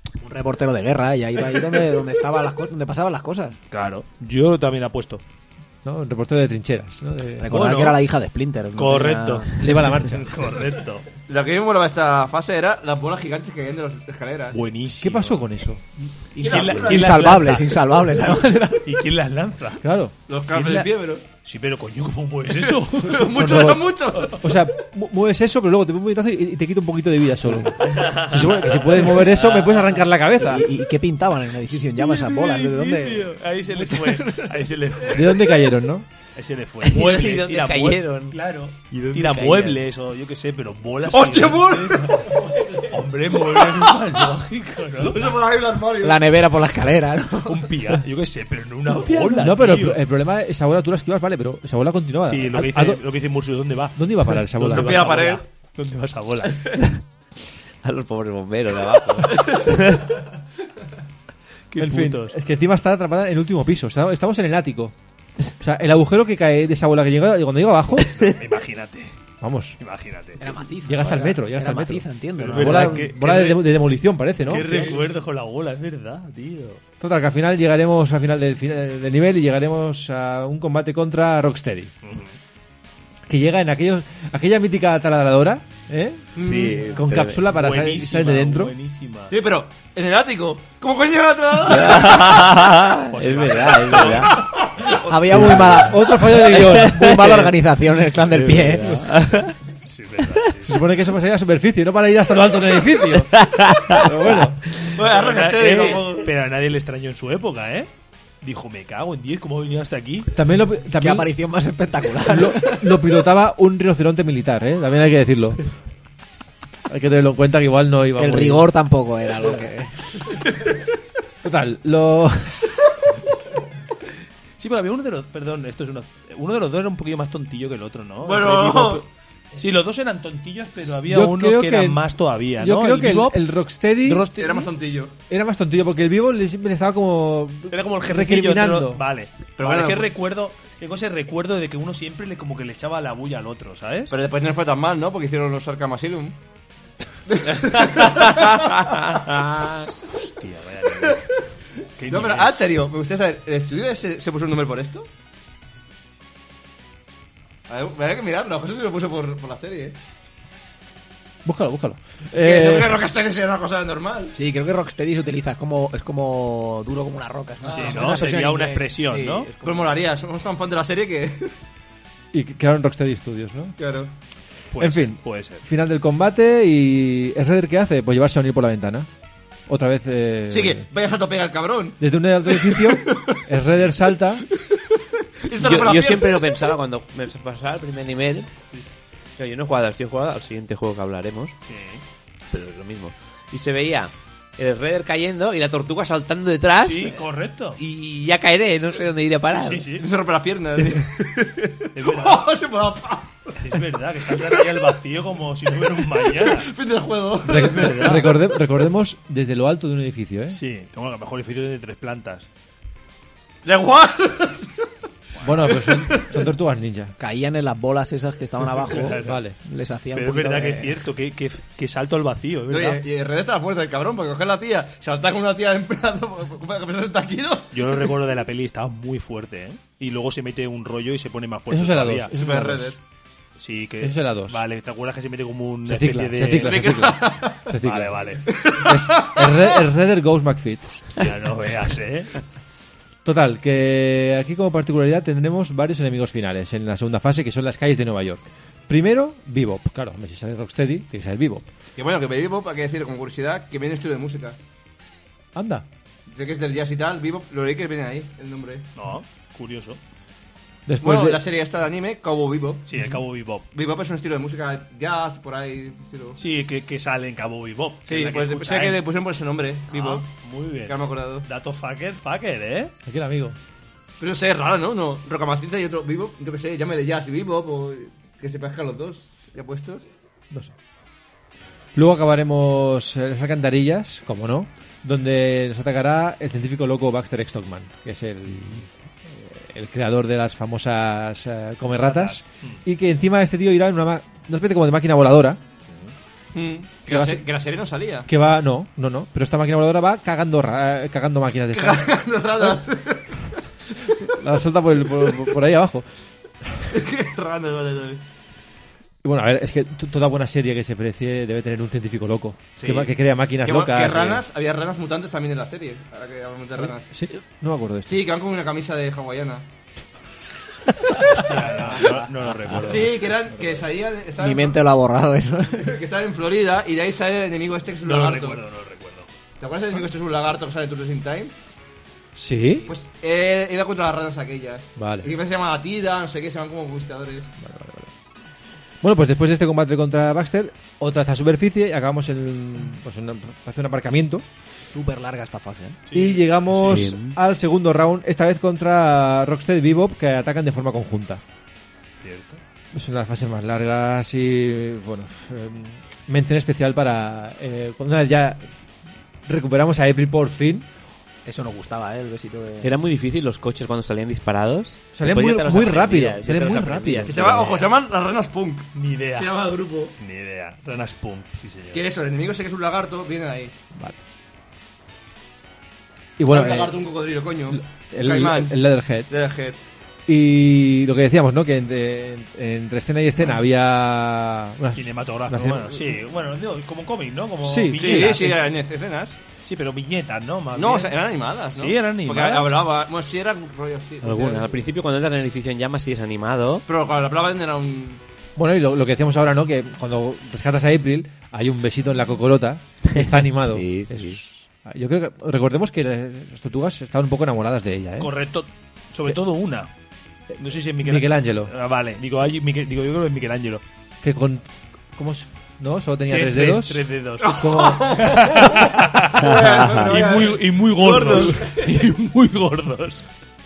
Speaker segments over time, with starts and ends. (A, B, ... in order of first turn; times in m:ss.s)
0:00.2-0:03.6 A
0:03.7-0:05.2 B
0:05.8-0:07.6 C
0:07.4-0:09.6 A
0:07.5-0:08.0 B
0:08.8-0:11.1 B
0:09.6-0:10.4 C
0:11.3-0:14.6 D
0:14.5-0:15.4 B
0:15.0-0:15.8 C
0:16.3-0:19.0 A
0:16.4-0:17.4 D
0:16.4-0:17.8 B
0:18.8-0:19.8 B
0:19.8-0:20.1 C
0:20.3-0:21.2 D
0:20.5-0:24.4 B
0:22.5-0:24.5 D
0:23.0-0:30.7 C
0:27.8-0:30.0 B
0:30.4-0:34.4 A
0:31.8-0:35.6 B
0:35.1-0:36.1 C
0:36.4-0:45.4 B
0:36.8-0:39.8 E
0:41.1-0:42.6 D
0:43.3-0:44.2 D
0:45.0-0:46.2 D
0:46.0-0:47.8 A
0:47.4-0:50.0 B
0:49.1-0:53.0 C
0:52.2-0:56.8 B
0:54.0-0:55.2 C
0:54.7-0:55.4 D
0:57.8-1:00.1 E
1:01.7-1:02.4 B
1:01.8-1:04.9 C
1:05.6-1:08.2 C
1:08.2-1:09.1 B
1:09.4-1:09.8 C
1:09.8-1:10.5 B
1:10.4-1:13.0 A
1:10.8-1:14.9 C
1:12.4-1:13.7 B
1:14.4-1:16.8 B
1:14.6-1:15.0 D
1:17.0-1:21.9 C
1:22.0-1:22.4 B
1:23.3-1:28.7 C
1:26.4-1:27.4 E
1:26.4-1:26.9 D
1:27.4-1:29.3 B
1:29.3-1:32.4 D
1:31.6-1:34.5 E
1:33.1-1:34.4 B
1:33.9-1:35.4 D
1:35.0-1:39.1 A
1:35.2-1:37.4 C
1:36.6-1:37.5 E
1:38.3-1:39.5 E
1:39.8-1:40.8 B
1:40.6-1:44.6 C
1:43.2-1:44.7 E
1:44.9-1:46.3 D
1:45.0-1:47.9 B
1:48.4-1:50.3 B
1:50.3-1:51.3 C
1:51.0-1:53.0 A
1:52.2-1:55.6 C
1:56.8-1:58.7 C
1:58.2-2:00.0 A
2:01.4-2:02.6 C
2:04.6-2:14.7 B
2:08.2-2:09.0 D
2:11.1-2:12.0 C
2:12.6-2:14.3 C
2:14.3-2:15.1 D
2:15.3-2:19.0 C
2:17.7-2:24.1 B
2:19.6-2:20.1 D
2:24.1-2:26.4 D
2:27.3-2:29.4 D
2:28.0-2:29.8 E
2:30.0-2:31.3 B
2:32.0-2:32.5 B
2:32.1-2:35.1 D
2:37.7-2:40.0 D
2:41.4-2:43.0 C
2:42.3-2:44.4 D
2:44.3-2:49.9 A
2:47.6-2:49.5 B
2:47.7-2:48.1 D
2:49.6-2:51.5 D
2:52.3-2:53.8 C
2:53.8-2:54.1 D
2:54.7-2:55.6 B
2:54.8-2:59.1 C
2:59.7-3:00.8 C
3:00.5-3:03.4 D
3:02.0-3:04.4 C
3:04.6-3:06.7 D
3:05.5-3:08.5 E
3:09.4-3:11.5 E
3:11.6-3:12.0 B
3:12.5-3:17.2 E
3:16.8-3:17.8 B
3:17.8-3:19.9 E
3:19.5-3:20.1 B
3:19.9-3:24.9 D
3:21.9-3:22.5 B
3:23.6-3:26.7 B
3:25.8-3:28.3 D
3:27.4-3:30.6 C
3:27.5-3:28.3 B
3:30.5-3:32.5 B
3:33.6-3:34.8 D
3:35.4-3:37.1 C
3:35.6-3:36.5 D
3:37.2-3:41.0 A
3:38.8-3:39.4 B
3:39.2-3:39.6 C
3:40.1-3:43.0 B
3:42.7-3:48.1 D
3:47.7-3:52.3 B
3:51.7-3:53.0 C
3:52.3-3:53.0 D
3:53.6-3:56.9 B
3:54.0-3:54.6 C
3:55.8-4:01.1 C
3:56.5-3:57.7 D
3:57.7-3:58.5 B
3:58.4-3:59.8 D
4:01.1-4:02.4 B
4:03.2-4:11.7 C
4:12.0-4:14.6 D
4:15.5-4:15.8 C
4:16.3-4:18.9 D
4:19.0-4:20.0 B
4:20.9-4:21.4 C
4:21.0-4:22.9 D
4:22.8-4:23.6 B
4:23.7-4:26.4 D
4:26.4-4:29.0 B
4:28.1-4:30.3 D
4:29.9-4:32.9 B
4:30.8-4:31.4 D
4:33.0-4:33.6 C
4:34.2-4:40.0 D
4:41.9-4:55.6 C
4:52.0-4:52.8 B
4:55.8-4:56.1 B
4:56.5-4:58.3 D
4:57.1-4:57.4 C
4:58.2-5:02.8 C
5:01.7-5:03.5 D
5:04.0-5:04.3 D
5:04.2-5:06.1 C
5:05.2-5:05.5 D
5:06.9-5:08.2 D
5:09.2-5:14.4 C
5:12.8-5:17.0 D
5:16.8-5:18.2 C
5:18.0-5:19.6 D
5:21.2-5:23.3 B
5:22.7-5:23.0 C
5:22.7-5:24.8 D
5:24.4-5:25.9 A
5:25.7-5:28.6 D
5:28.0-5:29.3 B
5:29.6-5:31.5 D
5:32.4-5:32.9 C
5:32.8-5:37.5 D
5:35.0-5:35.3 C
5:37.6-5:38.1 C
5:39.0-5:44.4 C
5:44.9-5:46.0 A
5:46.1-5:47.1 B
5:46.1-5:51.4 C
5:46.8-5:47.4 E
5:52.2-5:52.6 B
5:52.9-5:58.6 C
5:59.4-6:00.9 C
6:01.4-6:02.9 A
6:02.8-6:07.9 E
6:05.1-6:07.4 C
6:07.2-6:10.1 D
6:07.5-6:07.8 B
6:08.9-6:09.6 B
6:10.2-6:12.1 B
6:11.9-6:13.7 D
6:16.4-6:17.0 C
6:16.5-6:18.8 D
6:17.7-6:19.3 C
6:19.3-6:19.8 D
6:20.3-6:26.2 C
6:24.9-6:28.7 B
6:27.6-6:28.5 C
6:28.0-6:29.4 D
6:29.6-6:31.2 B
6:30.7-6:34.8 D
6:31.7-6:32.8 B
6:34.2-6:36.8 E
6:36.9-6:38.2 D
6:38.6-6:48.3 C
6:43.1-6:44.4 E
6:48.2-6:49.9 B
6:50.6-6:53.8 B
6:51.0-6:51.7 C
6:54.2-6:58.9 C
6:56.3-7:03.2 B
6:57.4-7:01.8 D